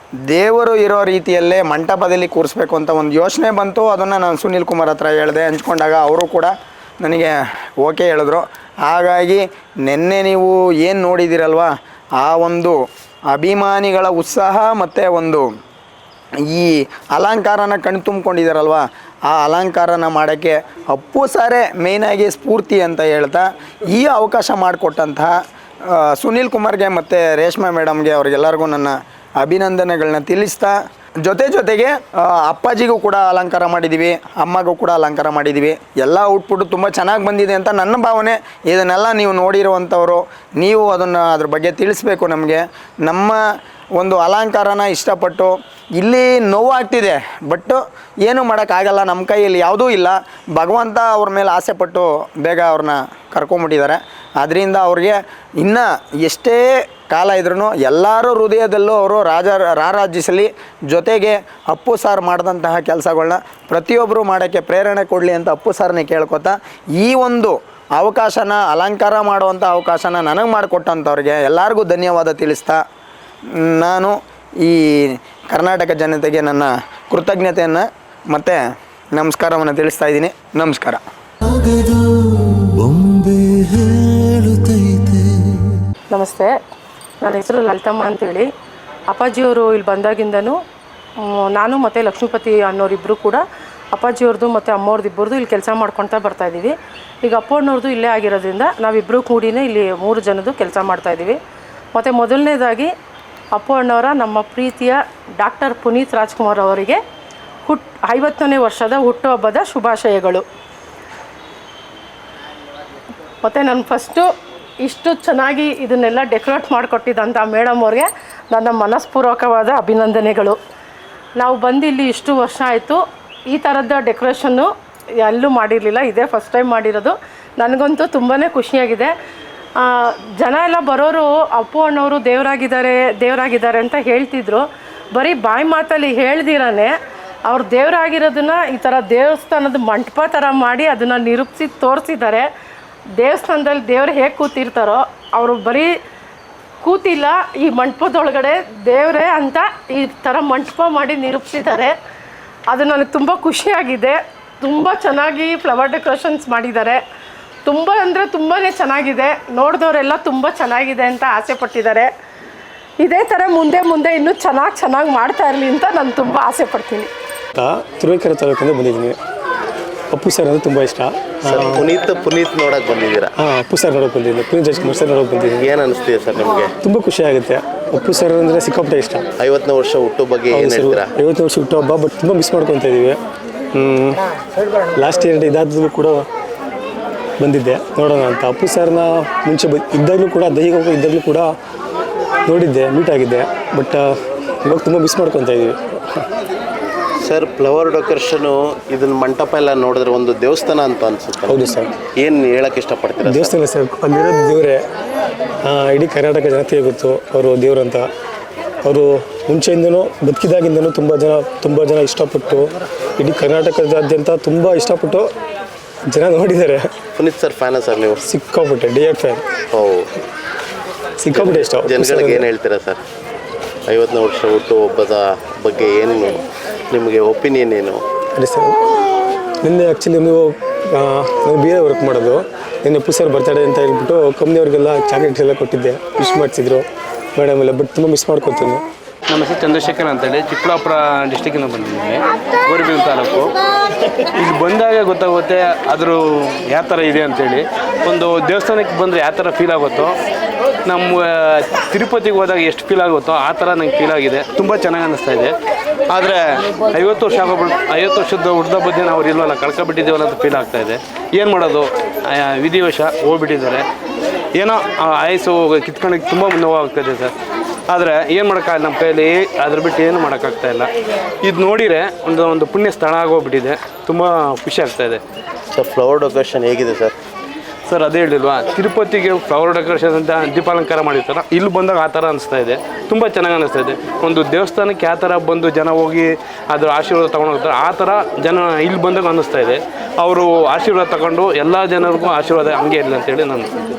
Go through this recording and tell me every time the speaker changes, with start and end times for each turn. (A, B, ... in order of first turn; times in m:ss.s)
0:00.3-0:12.8 A
0:13.3-0:15.5 A
0:16.5-0:25.3 A
0:25.9-0:43.4 A
0:44.0-1:12.8 A
1:13.6-1:18.6 A
1:19.1-1:21.0 A
1:21.6-1:22.1 B
1:22.8-1:25.6 B
1:26.1-1:26.5 C
1:27.2-1:28.5 C
1:29.1-1:30.6 C
1:31.2-1:33.4 C
1:33.9-1:41.4 C
1:41.9-1:42.9 C
1:43.5-1:47.0 C
1:47.6-1:50.4 C
1:53.4-1:54.3 C
1:54.8-2:00.6 C
2:01.4-2:04.7 C
2:05.2-2:09.1 C
2:09.9-2:16.9 C
2:17.5-2:22.5 C
2:23.2-2:25.9 C
2:26.8-2:31.9 C
2:32.7-2:37.0 C
2:37.6-2:42.1 C
2:43.0-2:47.1 C
2:47.5-2:49.2 D
2:50.1-2:51.9 D
2:51.4-2:53.3 E
2:53.4-2:55.7 D
2:55.6-2:56.7 E
2:56.8-2:59.2 D
2:59.4-3:01.1 E
3:00.5-3:03.2 D
3:03.7-3:04.2 D
3:05.0-3:06.2 D
3:07.4-3:11.5 D
3:12.5-3:14.1 D
3:14.6-3:15.7 D
3:17.2-3:21.7 E
3:21.4-3:21.9 D
3:22.2-3:23.6 E
3:23.2-3:24.8 D
3:25.6-3:28.0 D
3:28.8-3:35.3 D
3:36.1-3:36.9 D
3:37.2-3:38.2 E
3:38.2-3:39.4 D
3:39.7-3:40.1 E
3:41.2-3:42.5 D
3:41.3-3:43.0 E
3:43.9-3:48.0 E
3:48.4-3:48.7 D
3:49.6-3:56.8 D
3:57.4-3:58.8 D
3:59.3-4:03.5 B
4:04.4-4:10.1 B
4:10.9-4:11.2 B
4:11.8-4:15.5 B
4:16.1-4:23.8 B
4:24.5-4:27.3 B
4:27.9-4:30.9 B
4:31.4-4:35.2 B
4:35.7-4:37.1 E
4:37.9-4:53.7 B